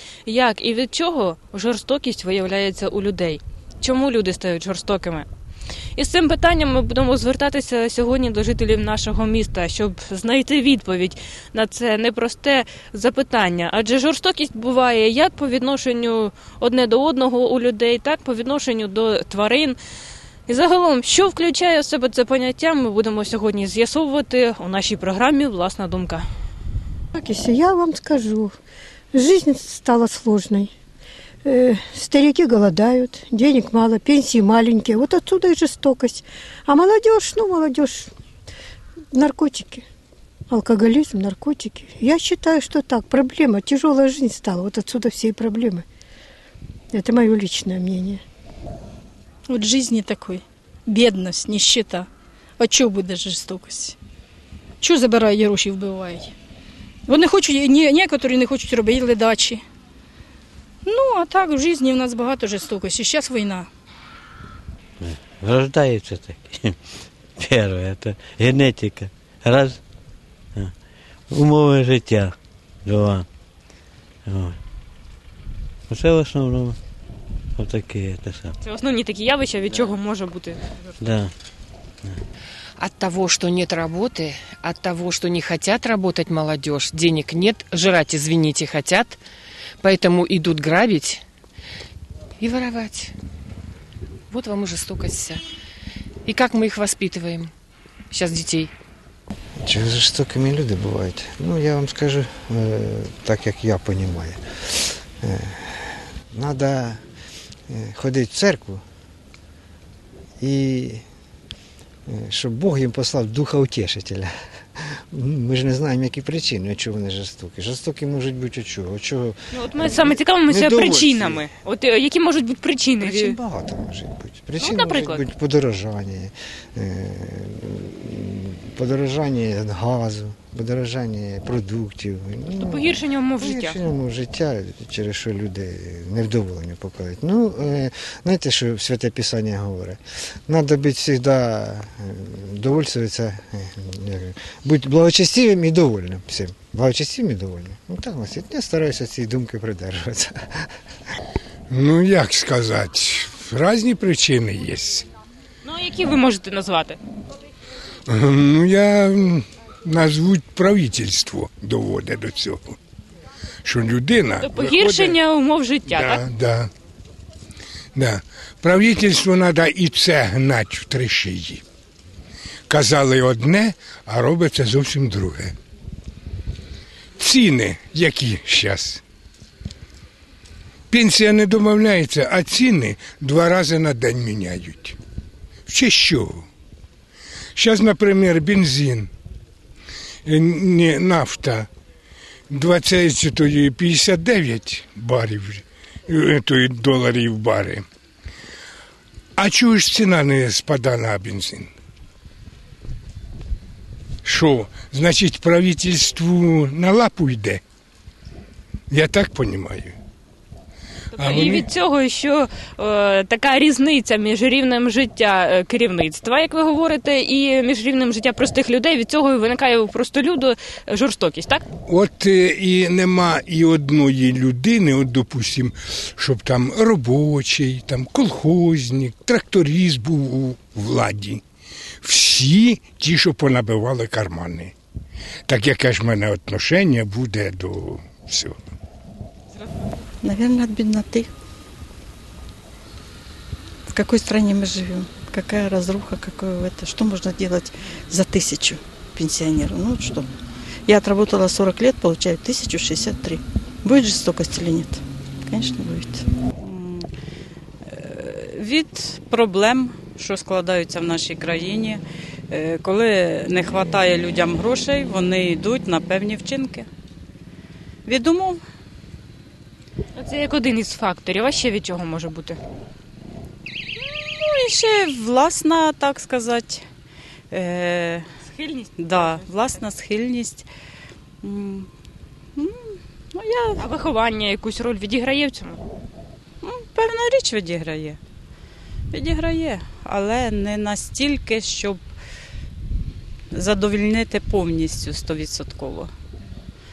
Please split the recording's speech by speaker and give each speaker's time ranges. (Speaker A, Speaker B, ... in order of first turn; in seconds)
Speaker A: 0.2-5.3, 6.0-19.8, 20.5-26.2, 78.6-80.6, 119.5-123.3, 124.6-125.2, 132.6-133.8, 155.6-157.0, 164.4-166.2, 211.1-221.6, 270.1-272.6, 278.4-279.5, 283.8-285.8
Speaker B: 27.1-28.6, 29.1-30.7, 31.4-38.1, 39.1-39.8, 40.5-45.8, 46.9-48.2
Speaker C: 49.5-54.0, 54.8-56.3, 57.1-59.6, 60.8-63.7
Speaker D: 65.0-66.8, 67.4-69.8, 71.3-73.3, 74.2-74.6, 75.9-76.8, 77.5-78.5, 81.0-81.3
Speaker E: 82.8-89.2, 89.8-91.2, 92.4-93.1, 94.3-95.4, 96.2-97.5, 98.1-98.7
Speaker F: 99.6-107.0, 107.7-108.8, 110.4-111.0, 112.0-121.5, 123.0-150.8
Speaker G: 151.7-155.1, 158.1-162.8, 163.6-165.2, 165.9-166.7, 167.9-171.6, 172.7-175.5, 177.2-179.0, 180.9-185.0, 185.7-186.4, 187.6-189.1, 190.2-191.7, 192.5-197.8, 199.4-201.7, 204.2-207.6, 208.9-209.9, 211.1-211.7, 221.9-231.4, 232.0-234.7, 235.5-238.6
Speaker H: 240.2-241.3, 243.9-250.3, 250.8-256.2
Speaker I: 256.6-257.1, 257.9-266.9, 268.1-268.6, 273.9-276.8, 277.5-278.2, 279.0-280.7, 281.4-281.9, 282.6-283.8, 286.6-288.2, 289.1-292.1, 293.5-296.1